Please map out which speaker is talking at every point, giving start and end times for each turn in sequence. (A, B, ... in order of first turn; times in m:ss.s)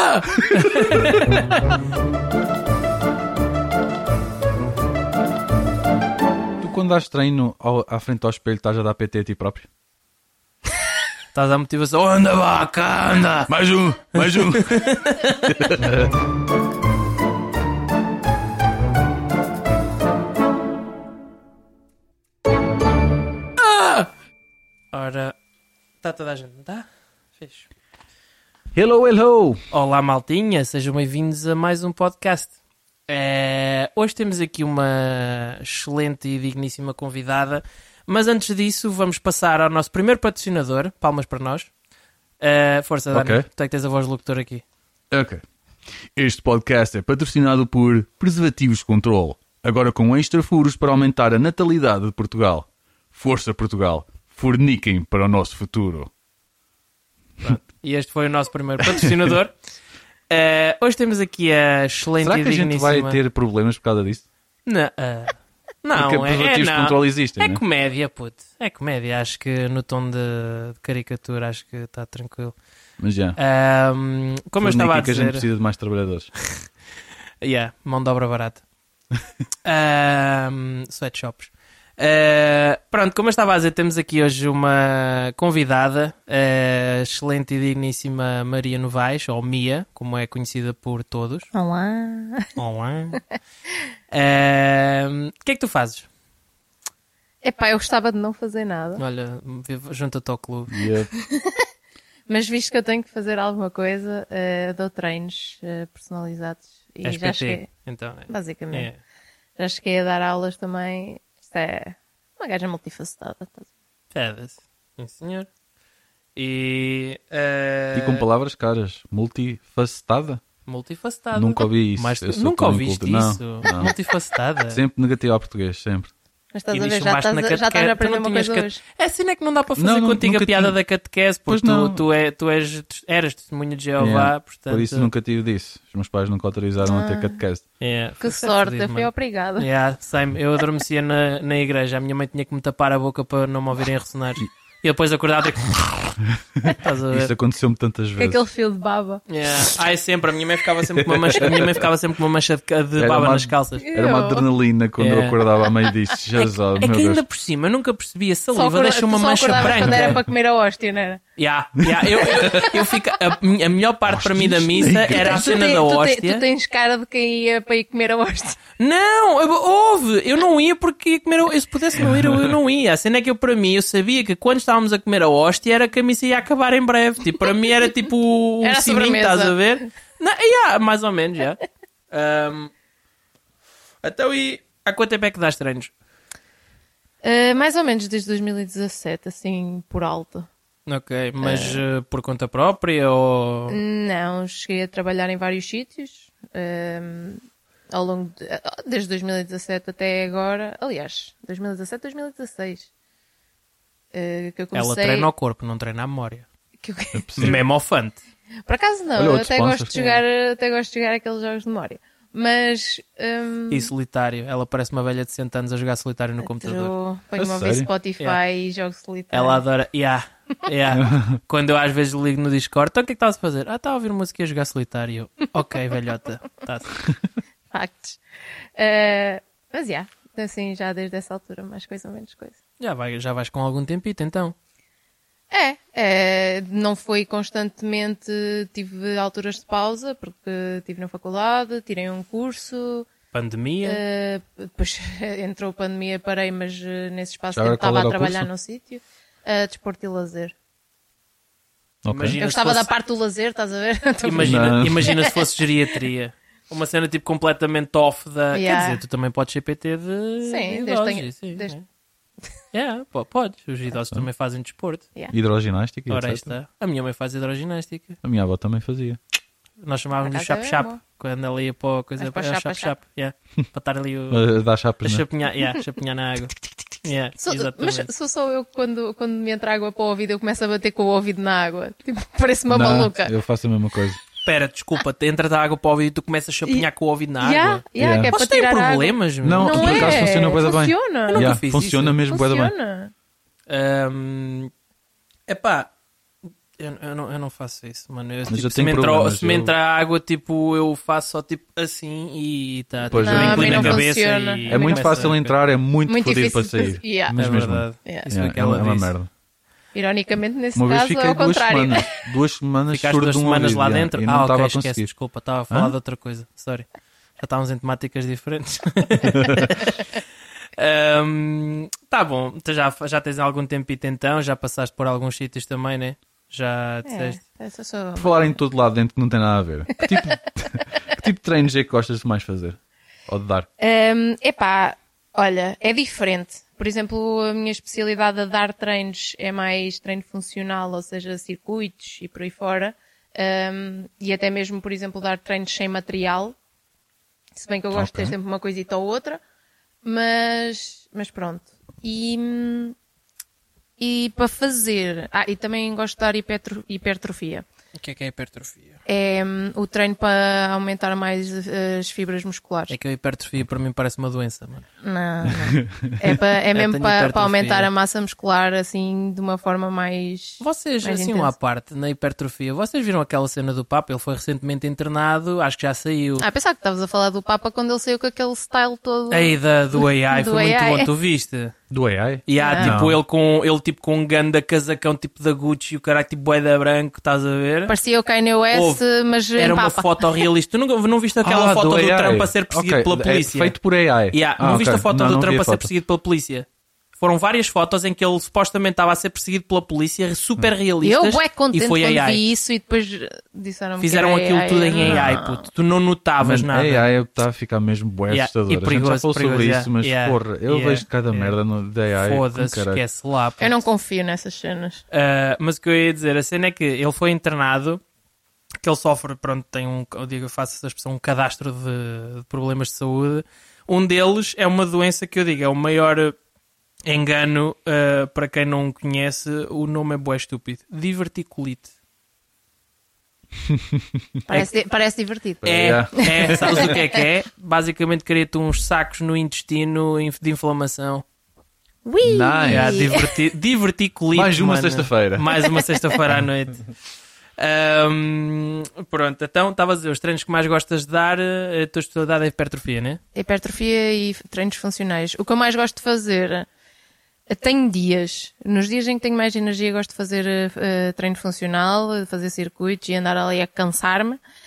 0:00.4-0:01.1 A
0:00.6-0:01.3 B
0:06.6-0:09.7 A
0:11.3-0:13.5 B
0:13.5-0:14.9 A
0:14.1-0:15.7 B
0:15.5-0:16.2 A
0:24.9-0:25.4 B
0:26.0-0:26.9 B
0:27.4-0:27.7 B
0:28.7-0:29.6 A
0:29.7-0:32.5 B
0:33.1-0:41.7 B
0:42.4-0:44.6 B
0:43.1-0:43.5 A
0:45.1-0:45.4 A
0:46.0-0:56.1 A
0:57.4-0:59.5 B
0:58.9-0:59.3 A
1:00.3-1:03.2 B
1:02.2-1:04.2 A
1:04.7-1:12.6 B
1:05.9-1:07.6 A
1:13.0-1:13.4 A
1:13.4-1:15.4 B
1:14.6-1:16.3 A
1:17.4-1:18.6 B
1:19.6-1:31.5 B
1:31.5-1:32.5 C
1:32.6-1:33.2 B
1:34.1-1:36.1 B
1:37.4-1:39.0 C
1:39.0-1:40.8 B
1:40.7-1:41.1 A
1:41.2-1:41.7 C
1:42.3-1:47.7 C
1:47.0-1:49.0 B
1:48.3-1:48.9 C
1:49.6-1:53.7 C
1:54.1-1:55.5 B
1:56.4-1:58.2 B
1:57.9-2:00.4 A
2:00.7-2:04.8 B
2:01.3-2:03.9 A
2:04.7-2:06.1 A
2:06.5-2:08.8 C
2:06.7-2:15.1 B
2:09.8-2:10.8 A
2:11.5-2:12.0 A
2:14.0-2:17.6 A
2:16.8-2:17.4 C
2:17.8-2:26.2 B
2:18.2-2:19.7 C
2:26.6-2:28.4 A
2:26.7-2:27.3 B
2:28.2-2:29.2 C
2:29.3-2:33.9 B
2:30.9-2:31.9 A
2:33.0-2:37.2 A
2:33.8-2:34.5 C
2:35.0-2:35.4 B
2:36.8-2:40.2 B
2:38.5-2:41.2 C
2:39.6-2:40.2 A
2:41.4-2:46.4 B
2:41.8-2:42.7 A
2:42.4-2:43.0 C
2:44.1-2:45.6 A
2:45.1-2:48.6 C
2:48.8-3:01.6 B
2:52.0-2:52.5 A
2:58.6-2:59.6 C
3:02.1-3:02.7 B
3:04.0-3:05.9 B
3:07.2-3:10.5 C
3:10.9-3:13.8 B
3:11.4-3:11.8 C
3:13.7-3:22.9 C
3:24.1-3:25.3 C
3:24.7-3:26.5 B
3:26.8-3:27.6 C
3:27.1-3:27.6 A
3:27.4-3:28.2 B
3:28.7-3:33.9 C
3:29.2-3:29.9 A
3:29.9-3:30.2 B
3:33.7-3:36.9 B
3:36.4-3:39.6 C
3:37.4-3:37.9 A
3:39.3-3:47.0 B
3:40.9-3:41.4 A
3:47.7-3:48.2 C
3:48.8-3:52.6 C
3:52.8-3:54.6 B
3:55.5-4:03.1 C
4:03.3-4:04.0 B
4:03.8-4:10.5 C
4:07.6-4:08.5 A
4:12.0-4:12.4 A
4:12.1-4:12.9 B
4:12.4-4:15.4 C
4:14.2-4:21.8 B
4:14.4-4:15.1 A
4:18.5-4:19.0 C
4:20.4-4:21.8 C
4:22.7-4:25.1 B
4:25.3-4:26.5 A
4:26.1-4:28.2 B
4:28.2-4:29.2 A
4:29.8-4:34.5 B
4:30.2-4:31.0 C
4:32.2-4:33.0 C
4:34.3-4:35.2 A
4:35.0-4:38.1 B
4:37.4-4:43.3 C
4:42.7-4:44.2 A
4:44.4-4:50.5 B
4:47.4-4:51.6 C
4:48.0-4:48.3 A
4:49.4-4:52.7 A
4:51.3-4:52.2 B
4:52.3-4:53.1 C
4:53.7-4:54.7 B
4:55.5-4:55.9 B
4:56.8-5:05.5 B
4:58.5-4:59.7 A
5:03.1-5:04.0 A
5:03.1-5:05.3 C
5:04.7-5:09.3 A
5:06.1-5:07.4 C
5:07.4-5:09.1 B
5:09.9-5:12.2 C
5:10.8-5:15.1 A
5:12.9-5:16.9 B
5:15.7-5:16.0 A
5:17.4-5:20.0 B
5:19.4-5:19.7 A
5:20.8-5:27.4 B
5:27.1-5:28.6 C
5:28.2-5:33.7 A
5:33.8-5:46.6 C
5:47.6-5:49.4 C
5:47.9-5:48.4 A
5:50.0-5:53.0 C
5:54.0-5:57.6 C
5:58.0-5:59.0 B
5:59.1-6:03.0 C
6:02.9-6:04.9 B
6:05.0-6:11.5 C
6:05.5-6:06.2 A
6:06.7-6:07.9 B
6:10.6-6:16.4 B
6:16.4-6:21.1 C
6:19.3-6:21.8 B
6:21.9-6:23.2 A
6:22.5-6:27.9 B
6:22.6-6:23.0 C
6:27.9-6:30.5 C
6:28.7-6:29.0 B
6:29.6-6:33.8 B
6:31.4-6:35.9 A
6:34.3-6:36.7 B
6:37.2-6:42.5 B
6:41.0-6:45.7 C
6:44.0-6:47.1 B
6:45.0-6:45.4 A
6:46.4-6:53.0 A
6:48.3-6:51.6 B
6:52.1-6:53.8 B
6:53.6-6:55.0 C
6:55.1-6:58.0 B
6:58.8-7:06.4 B
7:07.1-7:11.9 B
7:13.6-7:14.2 A
7:14.5-7:17.2 C
7:15.6-7:16.9 A
7:15.6-7:21.2 B
7:22.1-7:23.4 C
7:22.2-7:23.1 A
7:22.7-7:26.8 B
7:24.3-7:25.5 A
7:27.6-7:33.2 B
7:33.4-7:36.7 C
7:37.5-7:44.4 C